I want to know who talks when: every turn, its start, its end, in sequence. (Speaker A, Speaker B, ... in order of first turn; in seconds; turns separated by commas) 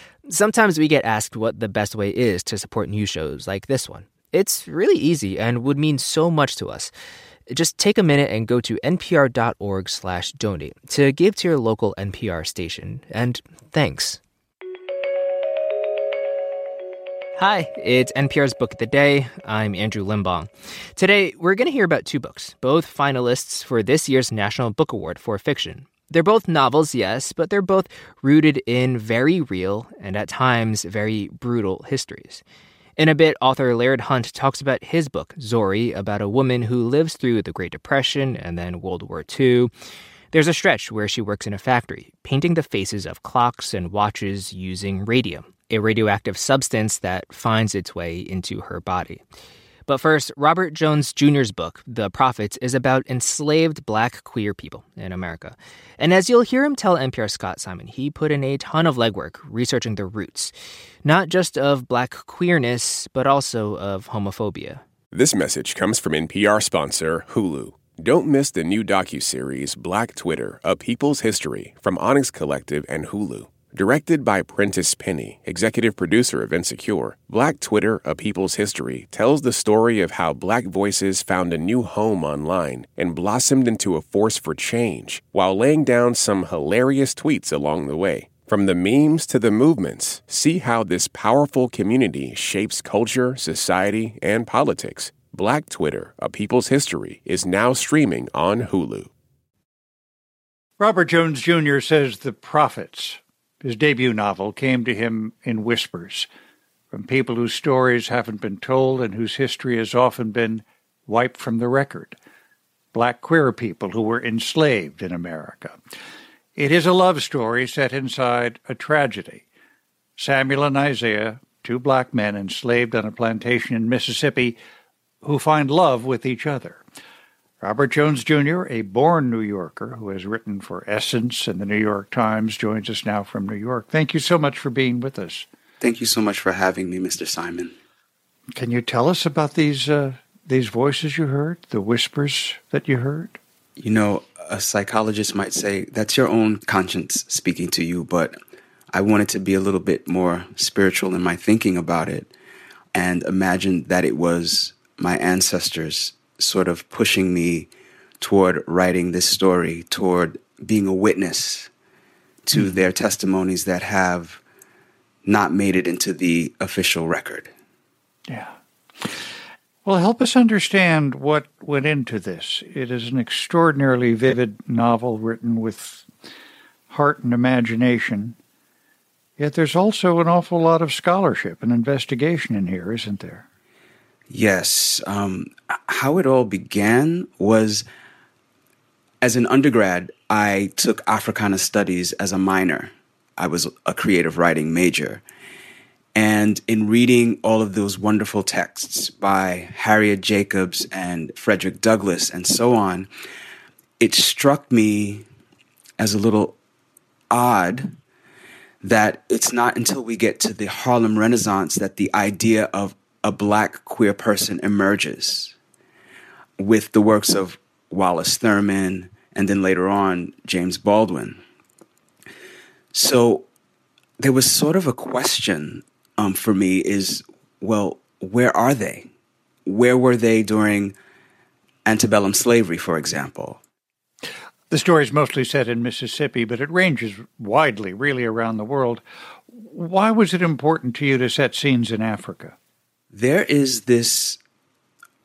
Speaker A: 0.2-6.9, Speaker A: 7.5-14.2, Speaker A: 17.4-32.4, Speaker A: 33.0-39.7, Speaker A: 40.3-49.2, Speaker A: 49.9-64.8, Speaker B: 65.1-99.1, Speaker C: 100.8-106.3, Speaker C: 106.9-112.2, Speaker C: 112.9-115.8, Speaker C: 116.5-119.4, Speaker C: 120.2-124.6, Speaker C: 125.2-126.8, Speaker C: 127.6-135.5, Speaker D: 135.8-137.7, Speaker C: 138.5-143.4, Speaker D: 143.8-148.4, Speaker D: 148.9-152.3, Speaker D: 152.9-157.7, Speaker D: 158.2-161.7, Speaker D: 162.4-164.4, Speaker D: 165.2-167.5, Speaker C: 168.3-169.2, Speaker C: 169.8-176.1, Speaker C: 176.9-178.3, Speaker C: 179.4-183.4, Speaker D: 184.3-187.8, Speaker D: 189.2-195.2, Speaker D: 196.1-203.1, Speaker D: 204.0-205.2, Speaker D: 206.0-206.6, Speaker D: 207.3-207.9, Speaker D: 208.8-215.5, Speaker D: 216.6-221.4, Speaker D: 222.9-223.5, Speaker D: 224.2-229.1, Speaker D: 229.7-230.9, Speaker D: 231.8-233.6, Speaker C: 234.7-242.5, Speaker D: 243.1-244.4